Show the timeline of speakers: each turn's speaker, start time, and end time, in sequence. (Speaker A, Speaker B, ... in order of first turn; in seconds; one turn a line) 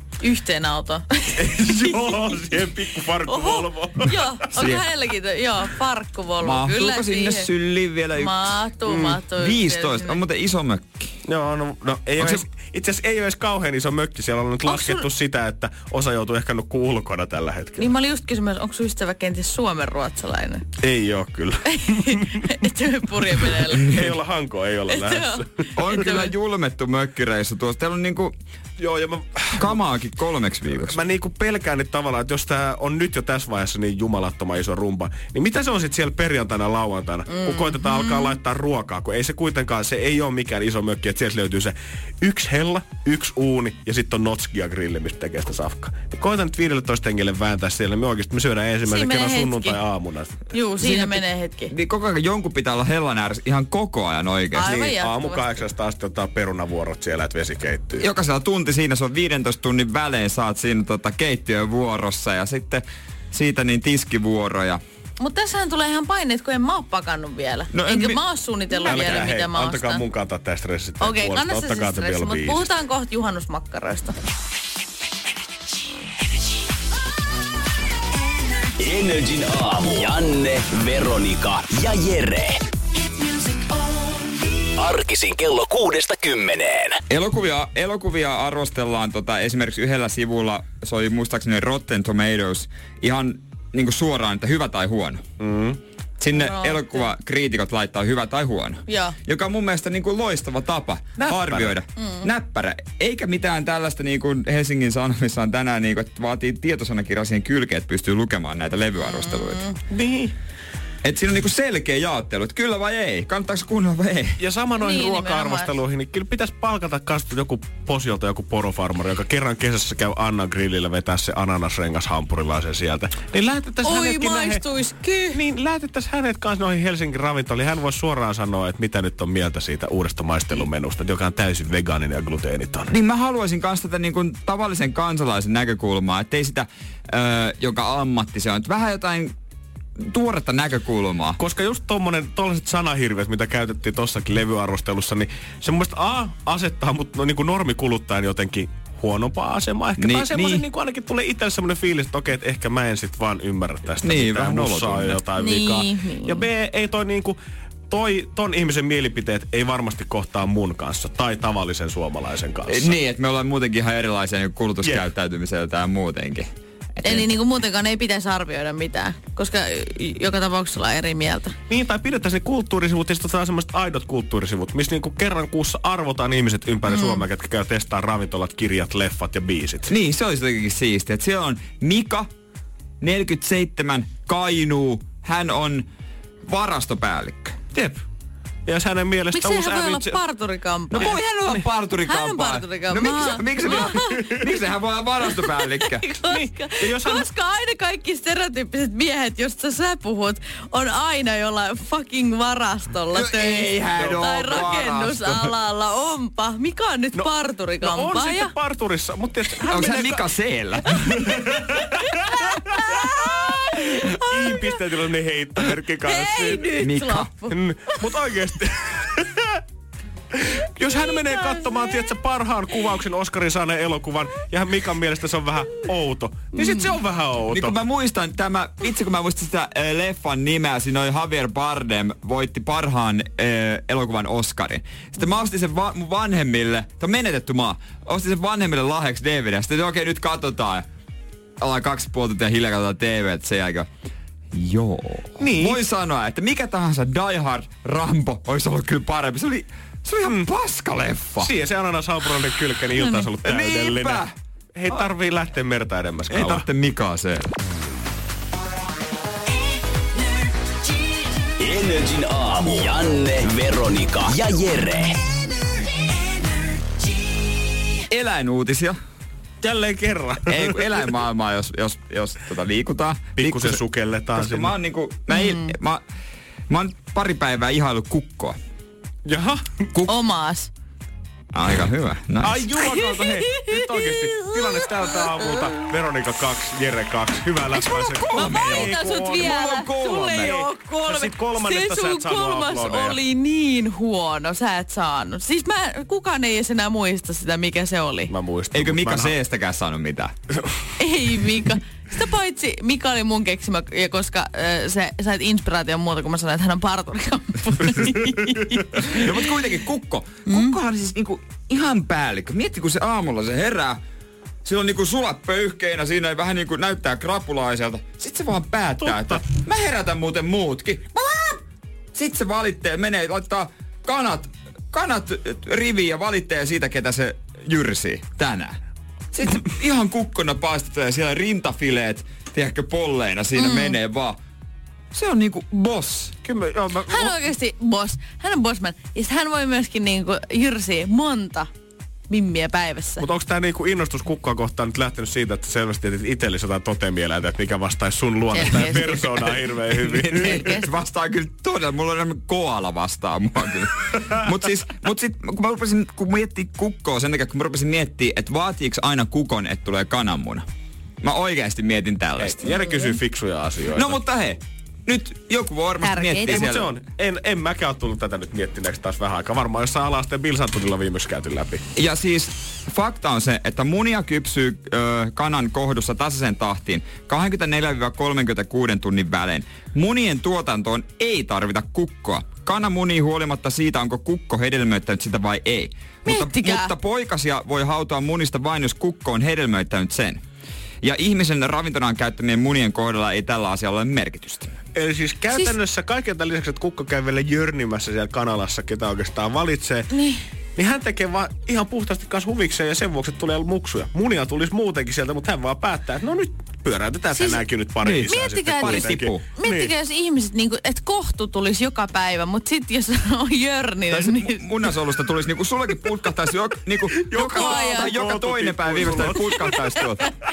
Speaker A: 0.2-2.1
Speaker B: 1.4-4.5
Speaker A: 3.2-7.5
Speaker C: 4.5-4.9
Speaker C: 6.4-8.7
Speaker A: 8.1-10.2
Speaker B: 8.8-9.2
Speaker C: 9.3-11.1
Speaker B: 11.2-17.9
Speaker C: 12.2-12.4
Speaker A: 14.6-15.1
Speaker A: 17.8-20.6
Speaker B: 20.8-22.6
Speaker A: 21.7-24.1
Speaker B: 23.4-25.6
Speaker A: 24.9-26.3
Speaker C: 25.8-28.3
Speaker B: 28.8-29.8
Speaker C: 29.6-31.0
Speaker B: 30.7-50.5
Speaker A: 37.4-38.3
Speaker A: 48.9-49.8
Speaker A: 50.5-51.7
Speaker C: 50.8-54.7
Speaker A: 54.5-55.5
Speaker B: 54.6-58.1
Speaker C: 58.0-64.8
Speaker A: 65.2-70.0
Speaker C: 67.7-68.2
Speaker C: 68.7-69.2
Speaker B: 68.8-72.7
Speaker A: 71.0-74.1
Speaker D: 78.8-82.6
Speaker D: 84.8-87.0
Speaker C: 87.1-95.2
Speaker B: 95.4-95.8
Speaker C: 96.2-109.7
Speaker A: 96.3-97.1
Speaker A: 98.9-99.2
Speaker B: 101.2-101.7
Speaker A: 102.0-102.3
Speaker A: 109.0-109.8
Speaker B: 109.9-110.3
Speaker C: 111.0-114.4
Speaker B: 114.4-124.7
Speaker A: 114.8-115.8
Speaker A: 123.8-125.4
Speaker B: 125.3-132.9
Speaker C: 132.9-139.3
Speaker C: 140.1-141.4
Speaker B: 141.4-157.4
Speaker C: 150.0-150.6
Speaker C: 154.0-155.2
Speaker A: 155.3-156.5
Speaker B: 157.9-163.0
Speaker C: 162.7-167.4
Speaker A: 167.0-171.6
Speaker B: 171.7-179.9
Speaker A: 176.9-177.2
Speaker C: 179.9-182.3
Speaker C: 183.0-185.8
Speaker C: 186.5-187.5
Speaker B: 187.7-188.0
Speaker B: 188.7-190.2
Speaker A: 189.3-191.2
Speaker C: 190.9-196.1
Speaker B: 190.9-191.6
Speaker A: 192.0-194.4
Speaker B: 193.7-194.4
Speaker A: 195.2-208.5
Speaker B: 196.3-197.3
Speaker C: 203.1-205.5
Speaker B: 203.9-204.8
Speaker B: 207.1-210.3
Speaker C: 209.7-211.3
Speaker A: 210.9-214.8
Speaker B: 211.2-213.1
Speaker C: 213.2-213.5
Speaker B: 214.0-216.7
Speaker A: 216.0-218.1
Speaker C: 216.8-217.3
Speaker B: 217.5-219.6
Speaker B: 220.3-227.8
Speaker A: 221.2-221.6
Speaker A: 226.6-227.0
Speaker C: 227.5-240.8
Speaker C: 241.6-243.9
Speaker C: 244.5-251.5
Speaker B: 245.4-245.8
Speaker B: 251.4-254.2
Speaker A: 253.0-253.3
Speaker C: 253.4-254.3
Speaker B: 254.7-256.6
Speaker C: 256.3-257.5
Speaker D: 261.6-265.2
Speaker C: 268.1-268.9
Speaker B: 269.6-270.9
Speaker C: 270.4-273.8
Speaker B: 273.4-274.7
Speaker C: 274.3-276.0
Speaker A: 275.3-275.7
Speaker C: 276.7-278.6
Speaker B: 279.2-279.9
Speaker A: 280.1-280.7
Speaker C: 281.5-282.7
Speaker B: 282.4-289.6
Speaker A: 282.9-285.8
Speaker C: 287.8-290.6
Speaker A: 288.4-298.3
Speaker B: 290.4-293.2
Speaker B: 298.3-299.4
Speaker C: 298.7-300.3
Speaker B: 300.5-300.9
Speaker A: 301.0-308.8
Speaker B: 308.5-308.8
Speaker C: 308.9-314.0
Speaker A: 310.5-310.8
Speaker C: 314.6-321.6
Speaker B: 319.0-319.4
Speaker C: 322.1-328.8
Speaker C: 329.3-334.4
Speaker A: 333.5-334.0
Speaker C: 335.1-336.3
Speaker B: 336.4-337.4
Speaker A: 337.1-341.7
Speaker A: 342.3-343.2
Speaker B: 343.2-350.8
Speaker A: 348.5-349.3
Speaker C: 349.4-360.6
Speaker A: 350.4-350.8
Speaker C: 361.2-362.6
Speaker B: 362.4-364.2
Speaker A: 362.7-363.2
Speaker C: 363.9-366.9
Speaker A: 366.0-366.6
Speaker B: 366.4-371.8
Speaker C: 371.9-390.4
Speaker A: 386.2-386.9
Speaker C: 391.0-394.8
Speaker B: 394.9-400.1
Speaker A: 400.1-400.4
Speaker B: 400.8-409.9
Speaker A: 407.3-407.6
Speaker C: 408.0-409.5
Speaker A: 408.3-414.6
Speaker C: 414.1-420.2
Speaker B: 417.2-419.7
Speaker A: 417.4-418.1
Speaker A: 419.2-420.2